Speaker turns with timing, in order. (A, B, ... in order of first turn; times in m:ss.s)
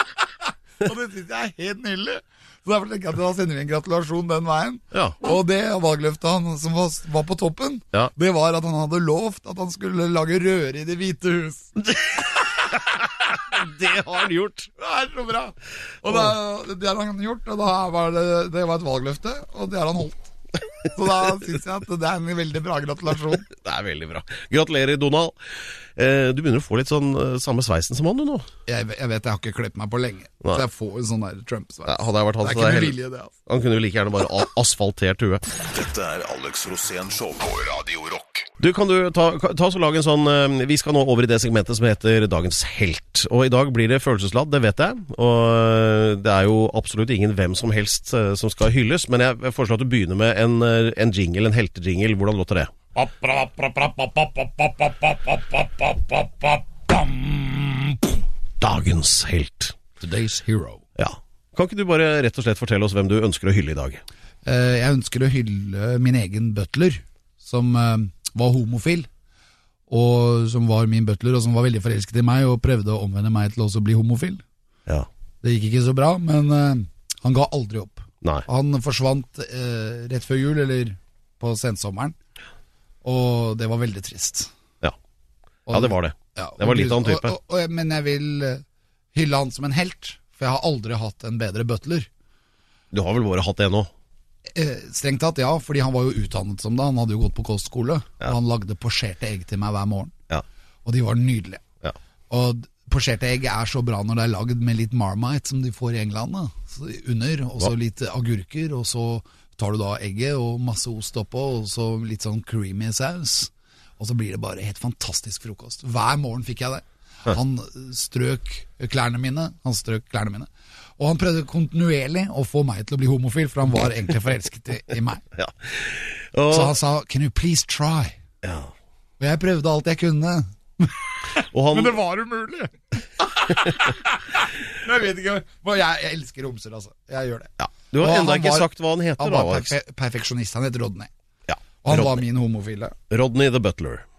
0:00.2-0:12.2 A
0:04.9-0:05.2 B
0:11.9-0:14.7 B
0:14.8-0:20.3 A
0:20.8-0:23.5 A
0:23.5-0:25.3 B
0:26.0-0:28.4 B
0:28.7-0:33.3 A
0:31.9-0:32.9 B
0:33.5-0:35.4 B
0:35.7-0:38.5 C
0:38.6-0:52.7 B
0:52.9-0:58.2 A
0:58.6-0:59.9 B
1:00.0-1:00.8 A
1:01.0-1:04.0 B
1:04.4-1:09.1 A
1:09.9-1:14.4 A
1:15.4-1:22.2 A
1:23.0-1:24.5 A
1:25.7-1:32.1 A
1:25.7-1:27.3 B
1:32.9-1:33.9 B
1:34.5-1:40.1 A
1:40.8-1:41.6 A
1:42.3-2:05.2 A
2:05.4-2:06.8 B
2:06.5-2:08.2 A
2:08.4-2:08.7 B
2:09.2-2:21.1 A
2:11.5-2:12.0 B
2:17.6-2:19.7 B
2:21.5-2:22.2 B
2:21.8-2:22.9 A
2:23.1-2:24.0 B